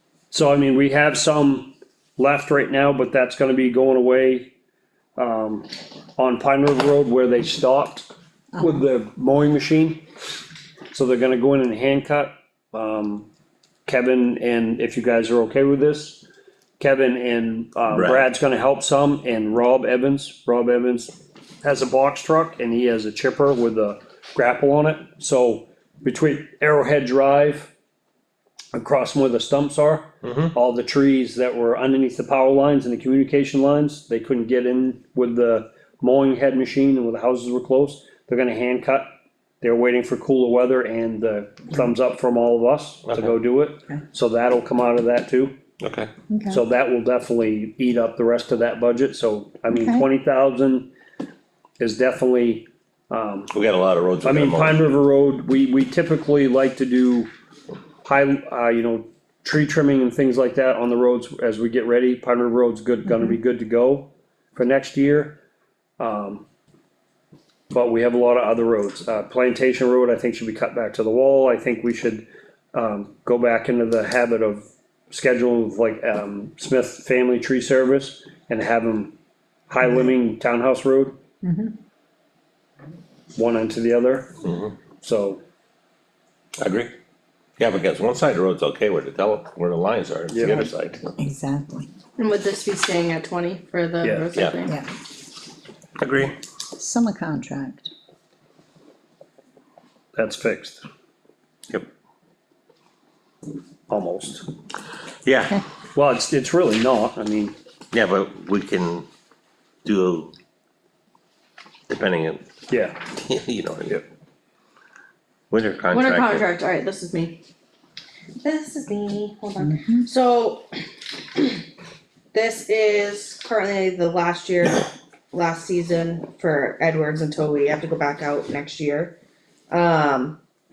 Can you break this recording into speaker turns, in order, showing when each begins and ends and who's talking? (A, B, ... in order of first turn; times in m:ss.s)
0:00.3-0:04.5 A
0:05.2-0:10.0 A
0:10.9-0:13.3 A
0:13.8-0:16.2 A
0:16.8-0:27.7 A
0:17.9-0:18.3 B
0:28.7-0:39.1 A
0:30.2-0:30.5 B
0:39.6-0:45.5 A
0:43.1-0:43.3 B
0:45.8-0:46.1 B
0:46.3-0:46.6 C
0:46.5-0:50.9 A
0:49.7-0:50.0 C
0:51.8-0:53.5 A
0:53.5-0:54.9 B
0:54.2-0:57.3 A
0:58.0-1:05.4 A
1:06.0-1:06.4 A
1:07.7-1:19.1 A
1:19.7-1:21.2 A
1:21.4-1:21.7 C
1:23.3-1:24.4 A
1:24.4-1:24.7 B
1:25.0-1:25.4 A
1:26.6-1:26.9 B
1:27.6-1:31.1 B
1:30.3-1:30.7 A
1:31.2-1:31.9 C
1:32.2-1:34.8 D
1:34.0-1:34.3 A
1:36.0-1:36.3 B
1:36.8-1:37.9 C
1:40.1-1:40.8 A
1:43.9-1:44.5 A
1:45.2-1:45.6 B
1:45.9-1:47.5 A
1:47.9-1:49.0 B
1:49.8-1:50.3 B
1:51.9-1:52.4 B
1:52.7-1:53.0 A
1:53.1-1:54.0 B
1:55.5-1:56.5 B
1:55.9-1:57.4 D
1:58.4-2:00.7 D
1:59.6-2:00.0 C
2:01.3-2:01.6 D
2:02.3-2:09.2 D
2:09.7-2:10.4 D